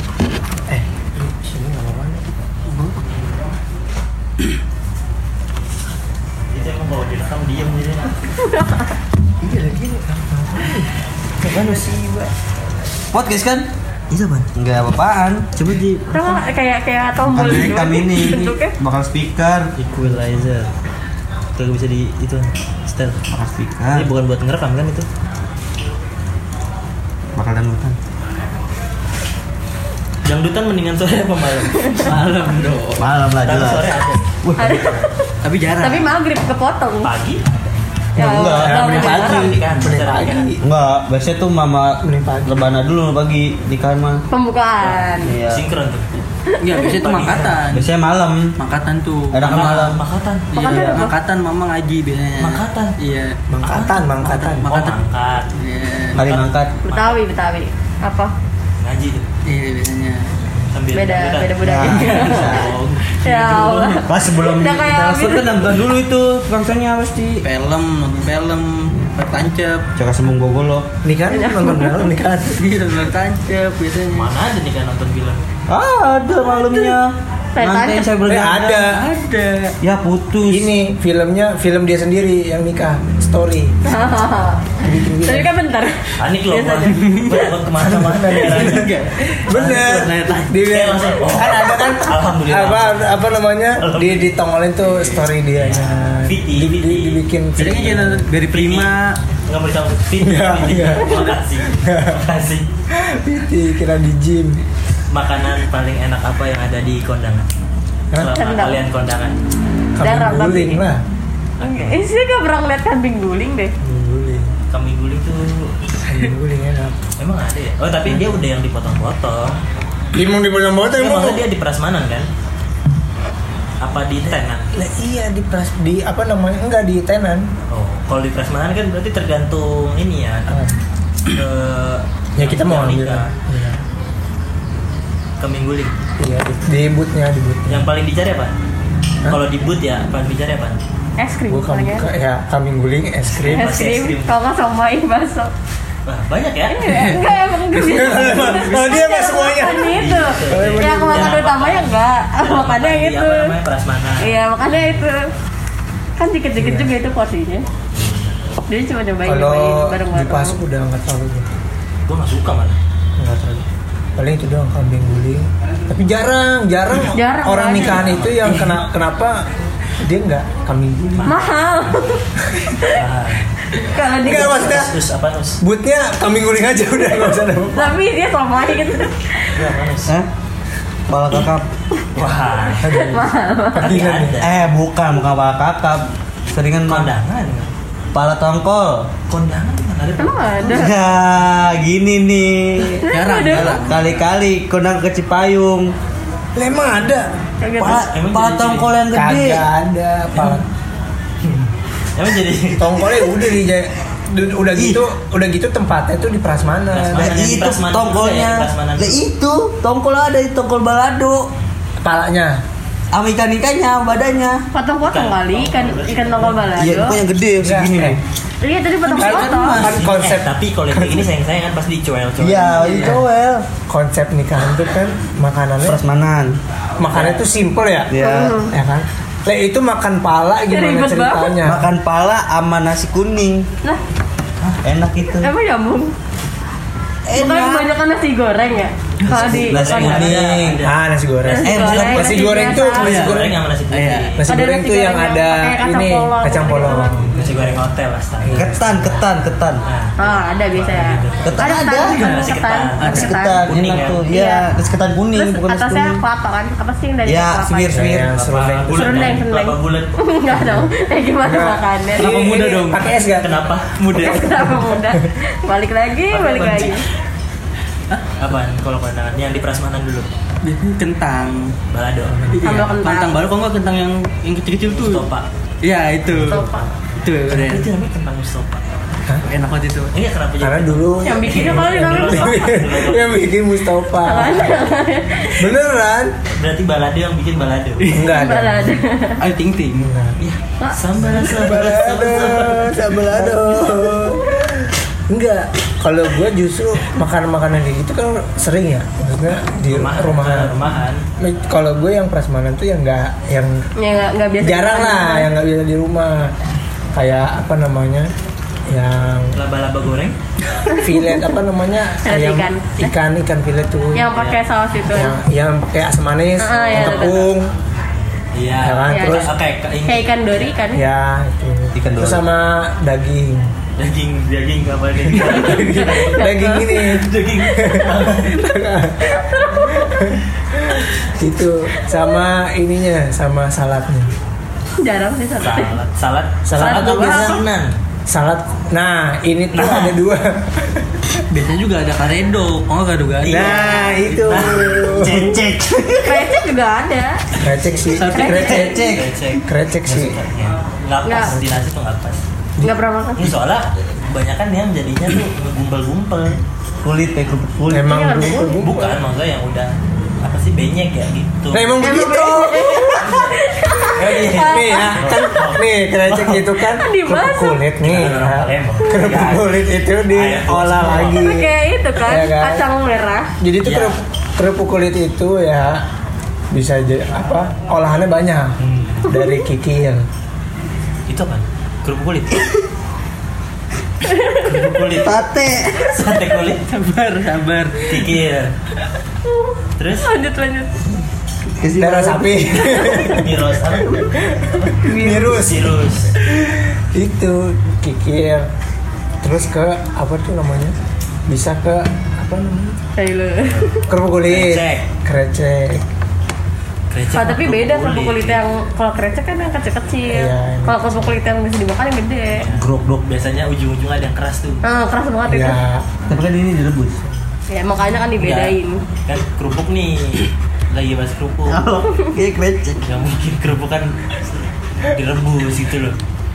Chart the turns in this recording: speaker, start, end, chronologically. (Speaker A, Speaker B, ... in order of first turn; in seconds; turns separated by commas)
Speaker A: 0.7-2.4, Speaker B: 6.5-8.2, Speaker C: 8.4-8.9, Speaker A: 9.4-10.9, Speaker A: 11.4-12.3, Speaker B: 11.5-11.9, Speaker D: 13.1-13.7, Speaker B: 14.1-14.5, Speaker D: 14.5-15.5, Speaker B: 15.6-16.3, Speaker C: 16.1-18.7, Speaker D: 17.2-19.7, Speaker B: 19.8-20.7, Speaker B: 21.6-23.2, Speaker D: 23.3-24.1, Speaker B: 23.9-25.1, Speaker D: 27.4-28.0, Speaker B: 30.2-32.2, Speaker C: 31.7-32.1, Speaker E: 31.9-33.0, Speaker D: 33.0-33.9, Speaker B: 33.4-35.0, Speaker D: 34.4-35.0, Speaker C: 34.6-35.3, Speaker E: 35.4-36.2, Speaker C: 35.8-37.1, Speaker B: 37.0-37.4, Speaker D: 38.1-39.1, Speaker C: 38.1-39.6, Speaker B: 38.4-40.5, Speaker A: 38.6-40.6, Speaker D: 40.6-44.2, Speaker A: 42.0-42.7, Speaker C: 44.3-45.3, Speaker D: 45.2-45.6, Speaker B: 45.5-46.2, Speaker C: 46.5-47.0, Speaker E: 46.6-47.9, Speaker B: 46.8-47.6, Speaker D: 47.7-48.5, Speaker E: 48.6-49.9, Speaker D: 49.3-50.0, Speaker B: 49.5-50.5, Speaker E: 50.5-53.4, Speaker C: 50.5-51.1, Speaker D: 50.6-51.0, Speaker B: 52.4-52.9, Speaker A: 53.5-54.6, Speaker B: 53.6-55.5, Speaker E: 54.2-55.0, Speaker E: 55.5-56.5, Speaker D: 56.1-56.7, Speaker C: 56.8-58.3, Speaker B: 56.9-57.1, Speaker B: 58.8-59.3, Speaker E: 59.4-60.3, Speaker B: 60.6-64.0, Speaker C: 60.9-62.7, Speaker D: 61.6-62.7, Speaker E: 61.9-62.5, Speaker C: 63.2-65.6, Speaker D: 64.0-67.4, Speaker E: 67.4-69.8, Speaker D: 70.0-70.9, Speaker A: 71.0-72.6, Speaker C: 71.3-72.1, Speaker E: 72.6-74.3, Speaker B: 74.1-75.4, Speaker D: 75.7-78.8, Speaker C: 77.5-78.1, Speaker A: 78.2-79.0, Speaker E: 78.8-79.7, Speaker D: 79.8-80.7, Speaker A: 80.4-83.8, Speaker C: 83.8-87.0, Speaker A: 84.8-85.5, Speaker B: 86.2-88.9, Speaker E: 86.9-87.5, Speaker A: 87.8-88.9, Speaker E: 88.3-90.5, Speaker A: 89.5-98.2, Speaker B: 89.5-94.4, Speaker E: 94.8-95.2, Speaker B: 95.5-97.2, Speaker E: 97.6-99.2, Speaker B: 98.5-98.9, Speaker B: 99.5-102.7, Speaker A: 100.2-102.2, Speaker A: 102.9-104.6, Speaker B: 105.1-107.5, Speaker B: 108.1-109.3, Speaker C: 108.3-108.8, Speaker A: 110.0-111.0, Speaker C: 110.0-110.8, Speaker B: 111.6-112.0, Speaker C: 111.6-113.7, Speaker A: 113.8-114.5, Speaker B: 114.7-115.7, Speaker A: 116.0-117.0, Speaker B: 117.2-119.6, Speaker A: 118.1-118.3, Speaker A: 120.1-121.4, Speaker B: 120.9-122.3, Speaker B: 123.8-124.7, Speaker A: 124.7-127.5, Speaker B: 127.7-130.7, Speaker A: 130.5-130.8, Speaker B: 131.3-133.3, Speaker A: 132.4-133.8, Speaker B: 135.4-135.9, Speaker A: 136.2-137.9, Speaker B: 137.7-138.5, Speaker B: 139.2-140.8, Speaker C: 141.2-142.1, Speaker A: 141.5-143.7, Speaker B: 143.2-144.3, Speaker C: 143.5-145.5, Speaker B: 146.1-147.0, Speaker C: 146.7-153.5, Speaker E: 146.8-149.0, Speaker A: 147.8-151.4, Speaker B: 149.9-155.0, Speaker C: 154.2-155.3, Speaker C: 156.2-157.7, Speaker A: 156.6-156.9, Speaker B: 157.9-158.4, Speaker C: 158.7-160.6, Speaker A: 159.2-161.5, Speaker B: 162.1-162.8, Speaker A: 163.2-163.7, Speaker A: 164.2-169.4, Speaker C: 167.1-168.0, Speaker B: 167.7-168.7, Speaker A: 170.0-171.3, Speaker B: 171.1-172.0, Speaker C: 171.2-173.0, Speaker B: 172.9-173.5, Speaker C: 173.7-174.8, Speaker A: 174.2-175.0, Speaker B: 174.2-175.6, Speaker A: 175.6-178.0, Speaker C: 177.7-179.6, Speaker B: 179.5-180.1, Speaker D: 181.1-181.7, Speaker B: 182.1-182.9, Speaker A: 182.8-184.4, Speaker C: 182.8-184.1, Speaker B: 183.7-184.6, Speaker D: 184.4-187.1, Speaker B: 186.8-187.7, Speaker D: 188.1-189.1, Speaker B: 189.3-190.8, Speaker C: 190.2-191.0, Speaker D: 190.6-195.9, Speaker C: 193.0-193.9, Speaker E: 193.1-194.1, Speaker A: 196.6-197.3, Speaker C: 197.6-198.1, Speaker D: 197.8-199.7, Speaker B: 197.8-198.9, Speaker A: 199.1-200.7, Speaker B: 201.4-203.2, Speaker A: 202.8-207.3, Speaker D: 204.8-205.0, Speaker B: 206.9-209.2, Speaker D: 207.1-211.5, Speaker A: 212.0-212.6, Speaker D: 213.1-214.6, Speaker C: 214.7-217.2, Speaker B: 215.1-216.7, Speaker D: 216.8-218.2, Speaker A: 217.6-218.2, Speaker C: 218.6-219.9, Speaker E: 219.1-220.0, Speaker A: 219.2-221.2, Speaker B: 219.8-223.1, Speaker D: 222.4-223.7, Speaker E: 222.7-223.2, Speaker A: 223.9-226.0, Speaker D: 225.8-226.6, Speaker A: 227.0-231.9, Speaker D: 228.1-228.6, Speaker C: 228.2-228.7, Speaker C: 230.7-231.6, Speaker D: 231.6-233.7, Speaker D: 234.8-235.5, Speaker C: 235.4-236.1, Speaker D: 237.3-237.9, Speaker C: 237.3-240.4, Speaker D: 239.2-240.8, Speaker B: 239.3-241.6, Speaker A: 240.3-243.6, Speaker C: 241.4-243.1, Speaker D: 241.6-242.8, Speaker B: 242.9-244.4, Speaker E: 243.0-243.4, Speaker E: 243.9-244.4, Speaker A: 244.4-247.8, Speaker C: 244.5-247.3, Speaker B: 247.3-249.0, Speaker A: 248.4-249.2, Speaker D: 248.5-249.8, Speaker B: 249.8-254.2, Speaker C: 250.2-253.7, Speaker D: 251.4-252.3, Speaker D: 253.0-256.2, Speaker C: 254.3-254.7, Speaker C: 255.3-257.9, Speaker D: 257.2-258.2, Speaker A: 257.9-259.4, Speaker B: 258.0-260.1, Speaker C: 258.9-262.3, Speaker A: 261.4-263.6, Speaker E: 262.2-263.0, Speaker B: 263.2-264.8, Speaker C: 264.1-267.1, Speaker A: 264.2-265.1, Speaker B: 266.3-267.1, Speaker B: 268.2-270.3, Speaker E: 270.6-271.7, Speaker B: 271.9-272.9, Speaker A: 272.3-272.6, Speaker E: 272.5-275.2, Speaker C: 272.6-273.4, Speaker B: 274.9-275.4, Speaker E: 275.8-277.9, Speaker A: 276.4-276.6, Speaker C: 276.4-276.9, Speaker B: 277.5-278.8, Speaker E: 279.5-280.1, Speaker B: 280.1-283.5, Speaker A: 280.6-284.8, Speaker C: 281.2-282.8, Speaker C: 284.1-285.7, Speaker A: 285.6-286.3, Speaker B: 286.5-288.1, Speaker E: 288.0-288.3, Speaker A: 288.1-289.0, Speaker C: 288.2-289.4, Speaker E: 289.4-290.1, Speaker A: 289.9-290.4, Speaker B: 290.4-292.9, Speaker A: 291.2-303.8, Speaker D: 292.2-294.3, Speaker B: 299.9-301.2, Speaker C: 304.0-305.5, Speaker A: 304.6-306.5, Speaker A: 307.1-308.3, Speaker A: 308.9-309.6, Speaker B: 309.5-310.4, Speaker C: 310.9-311.4, Speaker A: 310.9-314.3, Speaker C: 312.2-313.1, Speaker C: 314.1-315.4, Speaker B: 314.3-314.6, Speaker A: 315.1-317.7, Speaker C: 316.6-317.5, Speaker B: 316.8-317.4, Speaker B: 318.5-320.7, Speaker A: 318.8-319.5, Speaker C: 319.1-319.5, Speaker C: 320.0-321.1, Speaker A: 320.9-323.7, Speaker D: 321.9-322.4, Speaker B: 324.0-326.4, Speaker A: 325.4-334.3, Speaker C: 325.6-327.2, Speaker B: 327.1-328.6, Speaker C: 329.3-330.1, Speaker C: 335.0-336.0, Speaker B: 335.6-338.0, Speaker A: 336.6-337.6, Speaker C: 336.8-337.6, Speaker A: 338.3-341.2, Speaker E: 341.5-344.5, Speaker B: 343.4-343.8, Speaker A: 343.4-345.5, Speaker B: 344.4-345.6, Speaker D: 344.5-346.6, Speaker C: 346.2-347.4, Speaker A: 347.6-349.0, Speaker E: 348.1-348.6, Speaker C: 348.2-349.0, Speaker D: 348.3-349.3, Speaker B: 349.0-352.4, Speaker A: 349.6-350.4, Speaker C: 351.2-351.6, Speaker C: 352.8-353.5, Speaker B: 353.4-356.6, Speaker D: 357.0-358.3, Speaker A: 357.9-359.0, Speaker C: 357.9-359.1, Speaker B: 358.8-362.0, Speaker A: 361.7-363.4, Speaker D: 362.0-362.8, Speaker C: 362.0-365.5, Speaker B: 363.1-366.8, Speaker A: 364.2-372.8, Speaker C: 366.8-367.8, Speaker B: 368.0-369.7, Speaker B: 370.3-371.5, Speaker C: 371.3-373.5, Speaker A: 373.6-376.0, Speaker B: 373.8-374.1, Speaker A: 376.7-380.2, Speaker B: 378.8-379.3, Speaker B: 381.3-382.7, Speaker C: 384.3-384.7, Speaker B: 384.6-385.4, Speaker D: 385.1-386.2, Speaker B: 386.0-386.8, Speaker E: 386.9-388.4, Speaker B: 388.1-388.7, Speaker B: 390.0-390.3, Speaker C: 390.2-391.0, Speaker D: 391.8-392.8, Speaker A: 391.9-398.7, Speaker C: 392.8-393.4, Speaker B: 393.0-396.3, Speaker D: 395.1-395.6, Speaker A: 399.4-400.9, Speaker A: 401.5-403.0, Speaker C: 403.1-404.1, Speaker B: 403.6-405.1, Speaker A: 404.1-406.0, Speaker B: 407.1-408.6, Speaker C: 407.3-412.6, Speaker A: 410.3-411.2, Speaker B: 412.6-414.8, Speaker C: 414.8-415.8, Speaker A: 415.5-416.1, Speaker D: 416.3-417.2, Speaker C: 417.7-419.0, Speaker B: 418.4-418.7, Speaker B: 419.2-421.8, Speaker D: 421.7-423.1, Speaker B: 423.0-426.2